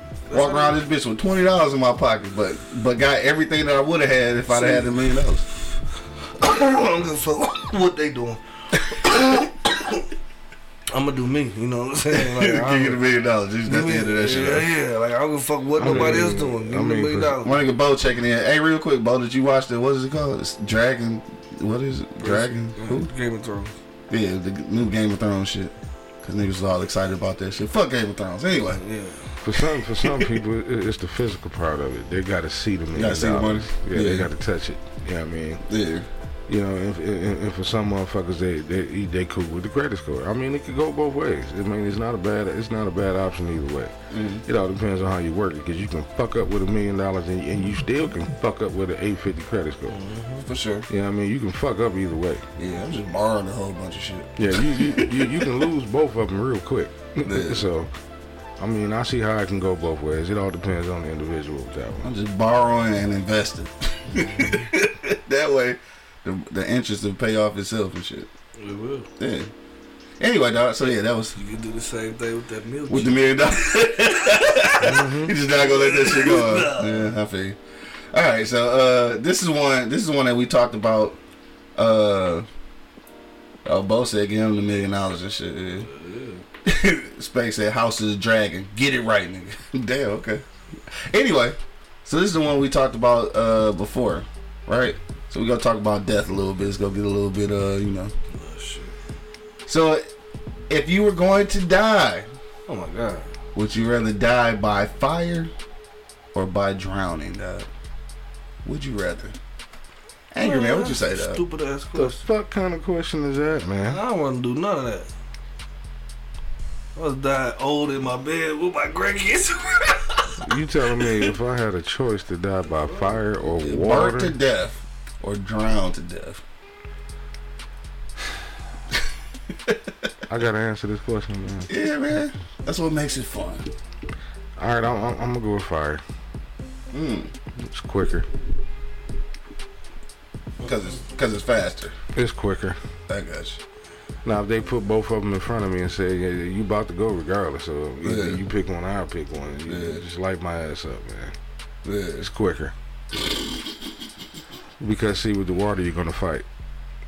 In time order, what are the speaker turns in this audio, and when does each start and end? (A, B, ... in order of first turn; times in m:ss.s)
0:00.3-0:00.8 A
0:00.3-0:05.4 B
0:04.5-0:05.0 A
0:06.4-0:09.9 A
0:10.9-0:13.0 A
0:12.1-0:14.7 B
0:13.6-0:17.6 A
0:15.8-0:17.4 C
0:17.4-0:23.1 B
0:22.2-0:23.7 A
0:24.1-0:28.8 B
0:28.6-0:29.4 A
0:29.4-0:35.7 C
0:32.9-0:34.3 B
0:35.7-0:36.1 B
0:36.5-0:43.9 C
0:44.1-0:44.4 B
0:44.4-0:50.0 C
0:49.9-0:50.5 A
0:50.4-0:50.9 B
0:50.9-0:52.4 C
0:52.6-0:55.4 B
0:54.4-0:57.9 C
0:57.2-0:57.7 B
0:58.6-1:02.1 C
1:02.0-1:08.3 B
1:04.1-1:04.7 A
1:08.6-1:09.1 A
1:09.2-1:09.5 B
1:10.2-1:11.4 B
1:11.3-1:14.9 A
1:12.9-1:17.6 B
1:14.8-1:15.3 C
1:15.5-1:17.2 A
1:18.1-1:21.2 B
1:21.8-1:22.4 B
1:23.6-1:25.9 B
1:25.8-1:26.4 A
1:26.6-1:38.1 B
1:38.3-1:39.0 A
1:39.7-1:40.0 B
1:40.7-1:42.3 B
1:42.7-1:43.3 A
1:43.5-1:45.5 B
1:46.3-1:47.7 B
1:48.6-1:49.4 B
1:50.3-1:51.4 B
1:50.4-1:52.2 A
1:51.9-1:54.0 C
1:53.9-1:55.1 A
1:57.0-2:01.3 A
2:00.4-2:04.3 C
2:02.8-2:03.2 A
2:03.5-2:06.4 B
2:10.3-2:11.7 C
2:11.7-2:13.7 B
2:14.6-2:16.0 C
2:16.9-2:17.3 B
2:17.6-2:18.2 C
2:20.6-2:22.0 B
2:22.1-2:22.8 C
2:23.1-2:23.6 B
2:24.2-2:31.3 C
2:28.0-2:28.4 B
2:29.6-2:30.0 B
2:31.8-2:32.3 B
2:32.2-2:32.7 C
2:34.8-2:36.4 C